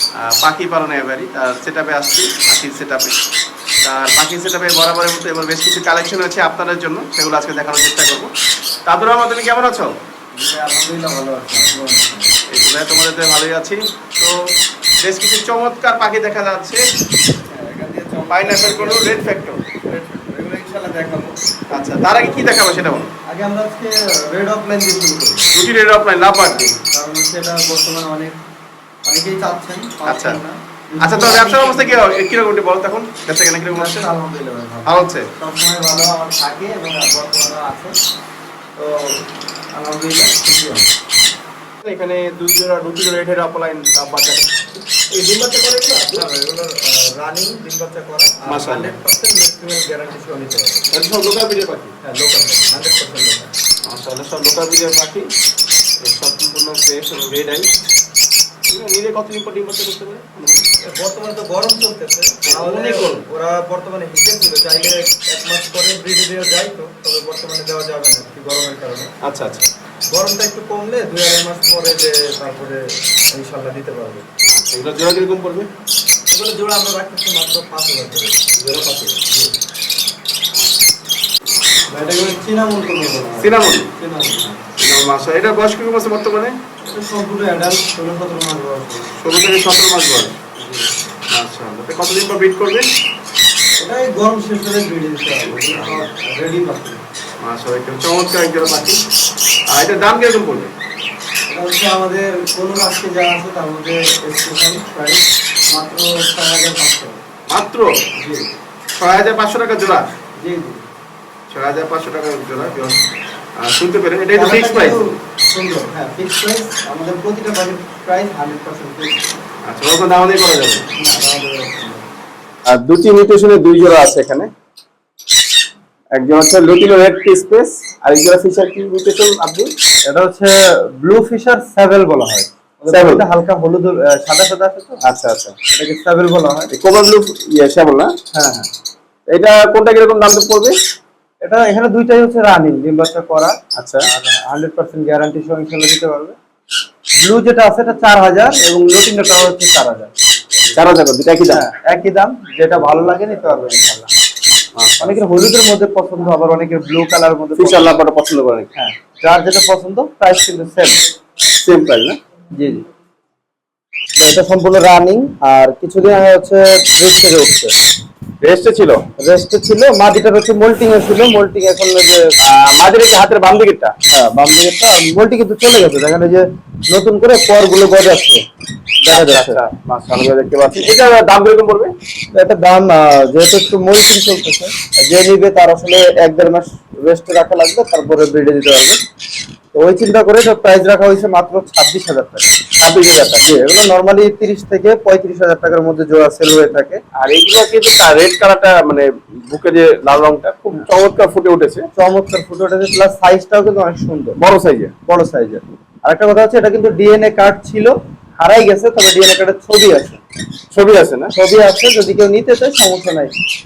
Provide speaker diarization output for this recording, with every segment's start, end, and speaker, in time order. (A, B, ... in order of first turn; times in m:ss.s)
0:00.2-0:03.1 A
0:03.8-0:08.3 A
0:08.8-0:09.9 A
0:10.4-0:12.3 B
0:12.5-0:14.4 A
0:15.0-0:16.8 A
0:17.4-0:19.3 B
0:18.3-0:19.6 A
0:19.8-0:21.5 B
0:21.7-0:23.1 A
0:23.3-0:25.5 B
0:25.5-0:26.8 A
0:26.9-0:28.4 B
0:29.0-0:32.0 B
0:30.0-0:30.4 A
0:31.0-0:33.9 A
0:33.7-0:37.9 B
0:34.8-0:35.3 A
0:38.8-0:39.2 B
0:39.7-0:40.9 B
0:41.8-0:46.2 A
0:45.8-0:50.9 B
0:48.4-0:49.0 A
0:50.9-0:52.0 A
0:52.0-0:53.5 B
0:53.8-0:55.3 A
0:56.0-0:57.7 A
0:58.7-1:00.6 A
1:00.8-1:09.1 B
1:02.4-1:03.2 A
1:09.2-1:09.7 A
1:10.1-1:14.2 B
1:14.4-1:15.7 A
1:16.3-1:18.5 B
1:18.6-1:19.2 A
1:19.2-1:19.5 B
1:21.9-1:24.6 B
1:23.4-1:23.9 A
1:24.8-1:26.6 A
1:26.8-1:29.2 B
1:29.2-1:30.3 A
1:30.6-1:30.9 B
1:31.3-1:32.9 A
1:33.8-1:37.0 B
1:35.4-1:36.0 A
1:37.4-1:39.0 A
1:39.7-1:40.7 A
1:41.5-1:47.2 B
1:47.5-1:47.9 A
1:48.2-1:48.5 B
1:49.0-1:50.1 A
1:50.4-1:50.8 B
1:51.5-1:53.0 A
1:53.6-1:55.0 A
1:54.3-1:59.2 B
1:59.6-2:00.8 A
2:00.9-2:02.1 B
2:02.6-2:04.5 A
2:06.1-2:09.7 A
2:10.1-2:15.0 B
2:12.9-2:13.2 A
2:15.0-2:15.5 A
2:15.7-2:16.7 B
2:16.7-2:18.1 A
2:18.3-2:18.7 B
2:19.3-2:20.7 A
2:21.4-2:26.3 B
2:23.8-2:24.1 A
2:27.2-2:30.1 B
2:30.7-2:31.6 A
2:31.5-2:34.1 B
2:34.8-2:35.2 A
2:35.0-2:37.9 B
2:37.6-2:38.7 A
2:38.8-2:41.0 B
2:41.6-2:42.2 A
2:42.5-2:42.8 B
2:44.2-2:47.7 B
2:48.4-2:49.1 A
2:49.2-2:52.3 B
2:52.4-2:53.9 A
2:54.1-2:58.4 B
2:59.0-2:59.6 B
2:59.1-3:01.9 A
3:02.3-3:09.0 B
3:09.7-3:12.5 B
3:12.8-3:13.6 A
3:13.4-3:17.0 B
3:17.2-3:21.9 A
3:22.0-3:24.4 B
3:24.4-3:24.9 A
3:25.1-3:30.2 B
3:30.7-3:31.3 A
3:31.3-3:33.3 B